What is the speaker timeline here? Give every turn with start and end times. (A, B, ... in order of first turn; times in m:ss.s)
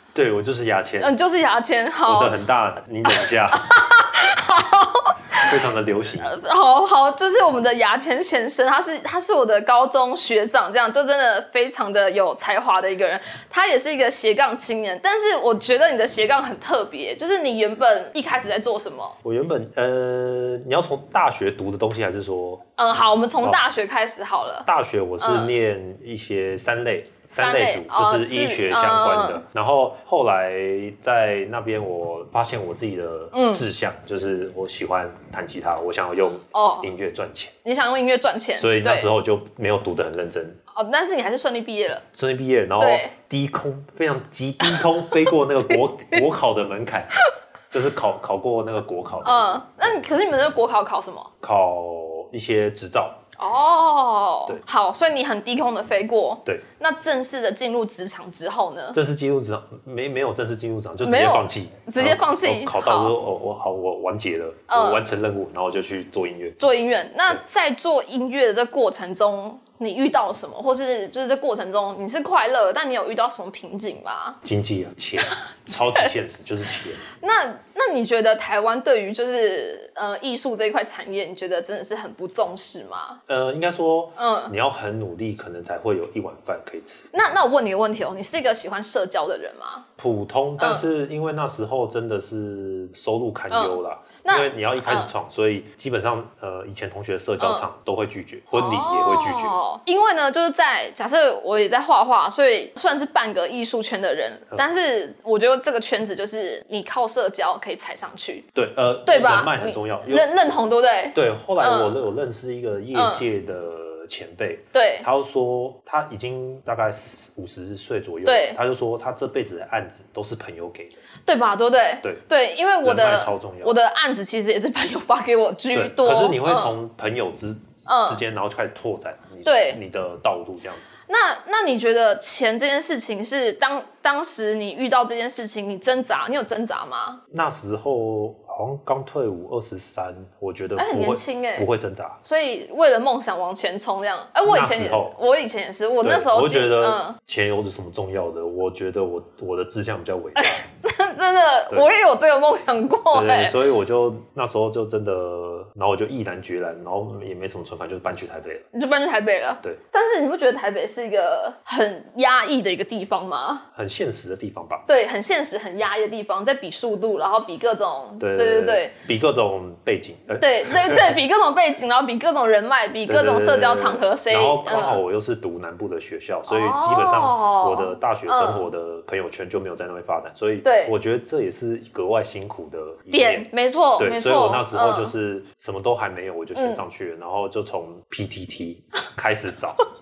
0:00.1-0:01.2 A
0:01.0-0:02.4 B
0:02.1-0:03.6 A
0:03.1-0:05.5 B
0:05.4-0:06.3 A
0:06.2-0:19.2 B
0:19.2-0:22.6 A
0:22.8-0:24.7 B
0:24.6-0:37.5 A
0:25.2-0:25.5 B
0:27.4-0:29.4 B
0:33.3-0:33.6 B
0:36.5-0:36.9 B
0:37.6-0:39.1 B
0:38.6-0:40.6 A
0:40.7-0:42.0 B
0:42.1-0:47.1 A
0:42.8-0:43.1 B
0:44.6-0:46.2 B
0:47.7-0:50.0 A
0:49.2-0:51.3 B
0:51.4-0:53.2 A
0:53.4-0:59.0 B
0:58.9-1:06.6 A
1:01.0-1:03.1 B
1:04.7-1:05.1 B
1:06.6-1:14.4 B
1:14.4-1:17.0 A
1:15.4-1:16.1 B
1:17.1-1:23.2 B
1:23.3-1:27.2 A
1:24.2-1:24.5 B
1:27.1-1:29.9 B
1:30.0-1:39.6 A
1:30.6-1:30.9 B
1:33.5-1:35.1 B
1:37.4-1:37.6 B
1:38.5-1:48.5 B
1:48.6-1:50.3 A
1:49.1-1:52.0 B
1:51.1-2:01.0 A
1:52.9-1:53.2 B
1:54.7-1:55.1 B
1:58.2-1:58.6 B
2:01.3-2:06.8 B
2:02.8-2:03.8 A
2:05.7-2:10.9 A
2:07.9-2:08.2 B
2:09.4-2:09.8 B
2:11.1-2:17.2 B
2:17.3-2:22.2 A
2:20.8-2:21.7 B
2:22.2-2:27.2 B
2:24.4-2:25.1 A
2:26.0-2:30.6 A
2:30.4-2:33.6 B
2:33.1-2:38.6 A
2:38.7-2:43.6 B
2:43.7-2:44.8 A
2:44.9-2:48.9 B
2:48.2-2:51.2 A
2:50.4-2:55.0 B
2:53.1-3:09.8 A
2:56.5-2:58.7 B
3:00.6-3:00.9 B
3:03.1-3:05.1 B
3:06.6-3:06.8 B